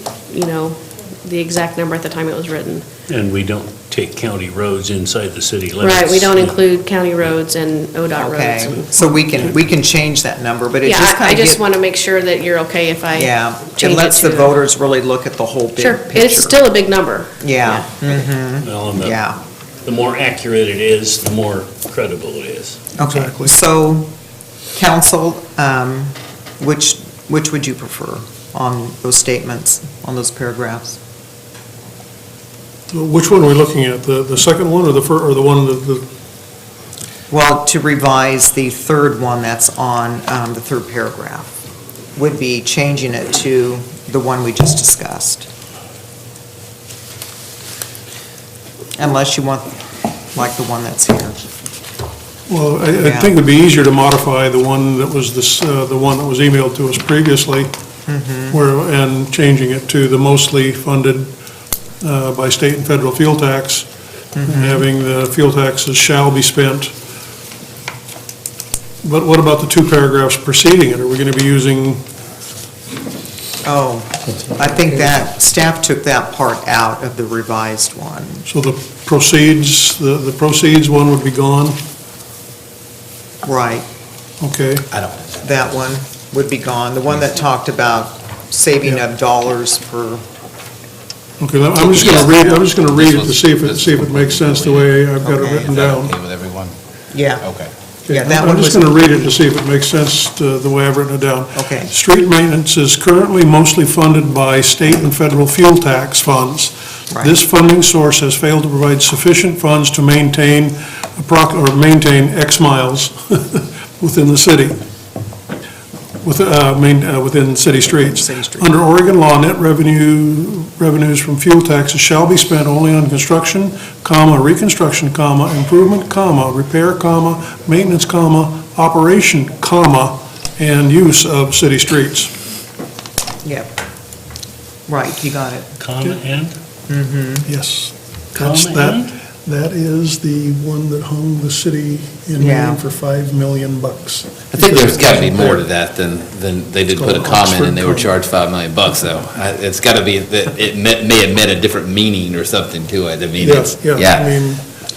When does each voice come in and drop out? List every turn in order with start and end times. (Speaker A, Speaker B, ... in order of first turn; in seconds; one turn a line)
Speaker A: 0.3-2.9
Speaker B: 3.1-6.5
Speaker A: 5.8-8.9
Speaker C: 8.1-11.6
Speaker A: 10.8-14.6
Speaker C: 13.1-16.6
Speaker A: 15.8-17.3
Speaker C: 17.4-19.4
Speaker B: 18.6-19.2
Speaker B: 19.8-22.8
Speaker C: 23.0-24.1
Speaker D: 23.0-23.5
Speaker C: 24.7-31.0
Speaker D: 32.9-36.0
Speaker C: 37.3-41.5
Speaker C: 42.1-45.5
Speaker C: 49.0-51.4
Speaker D: 52.5-57.7
Speaker C: 53.0-53.3
Speaker C: 58.1-58.6
Speaker D: 58.5-61.3
Speaker D: 62.0-63.9
Speaker C: 64.3-64.8
Speaker D: 64.4-66.9
Speaker D: 69.0-72.0
Speaker C: 73.6-78.4
Speaker D: 78.5-81.8
Speaker C: 83.4-83.8
Speaker D: 84.4-84.8
Speaker E: 84.9-85.7
Speaker C: 85.4-90.2
Speaker D: 91.4-96.1
Speaker C: 91.8-92.7
Speaker E: 91.9-95.0
Speaker C: 95.2-95.7
Speaker E: 95.5-96.8
Speaker C: 97.1-97.5
Speaker E: 97.4-97.7
Speaker D: 98.0-114.8
Speaker C: 98.1-99.3
Speaker C: 101.5-101.9
Speaker D: 116.2-132.3
Speaker C: 117.9-118.7
Speaker C: 133.4-133.7
Speaker C: 134.9-135.7
Speaker B: 135.8-136.5
Speaker C: 136.9-137.4
Speaker D: 137.4-145.7
Speaker B: 138.3-139.2
Speaker C: 142.4-142.8
Speaker E: 144.5-154.3
Speaker D: 146.9-148.1
Speaker D: 153.4-154.6